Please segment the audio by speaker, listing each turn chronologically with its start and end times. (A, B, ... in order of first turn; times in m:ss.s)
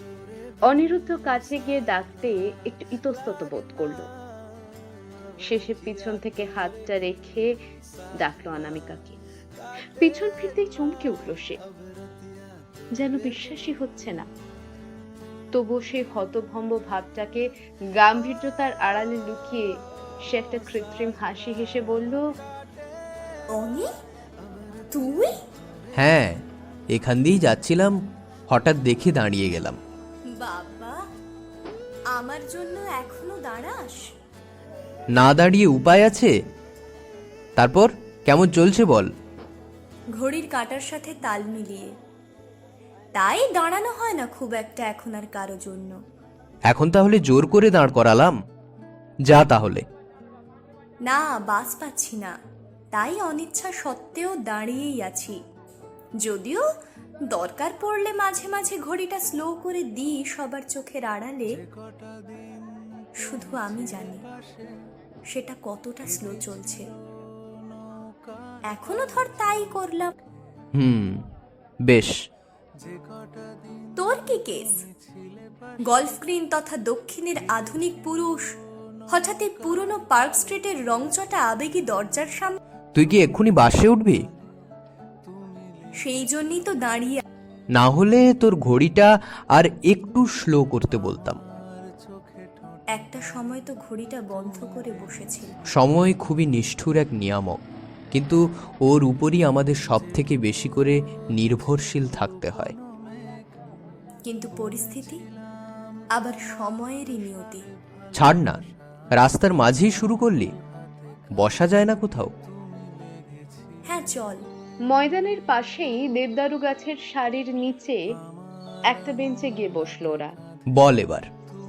0:00.7-0:04.1 A
0:05.5-0:07.5 A
0:08.2-0:09.2 A
0:10.0-0:11.6 A
0:13.0-0:14.3 A
0:15.5-0:17.5 A
0:18.0-0:19.7 A
0:20.3-0:22.2 A
0:23.5-0:23.9 B
0:24.9-0:25.4 B
0:26.0-0:26.4 C
0:26.9-0:28.0 C
0:28.5-0:29.8 C
0:30.3-0:31.0 B
0:32.1-0:34.0 B
0:35.2-0:36.3 C
0:37.6-0:39.1 C
0:40.2-0:42.0 B
0:43.2-0:46.0 B
0:46.7-0:48.4 C
0:49.3-0:49.8 C
0:51.0-0:52.4 B
0:52.9-0:55.4 B
0:56.2-0:56.6 B
0:57.3-1:01.6 B
1:03.2-1:04.2 B
1:05.3-1:06.9 B
1:08.7-1:10.1 B
1:10.8-1:11.2 C
1:11.9-1:12.2 C
1:14.0-1:14.9 B
1:15.8-1:18.5 B
1:19.1-1:22.6 B
1:23.0-1:24.2 C
1:26.0-1:27.2 B
1:27.8-1:31.4 C
1:33.0-1:35.5 B
1:35.7-1:37.6 C
1:38.1-1:42.8 C
1:44.3-1:45.2 B
1:46.2-1:47.6 B
1:48.2-1:48.6 C
1:49.2-1:50.5 C
1:51.4-1:52.4 C
1:53.9-1:54.4 B
1:54.9-1:58.0 A
1:58.9-2:00.3 A
2:00.8-2:01.3 C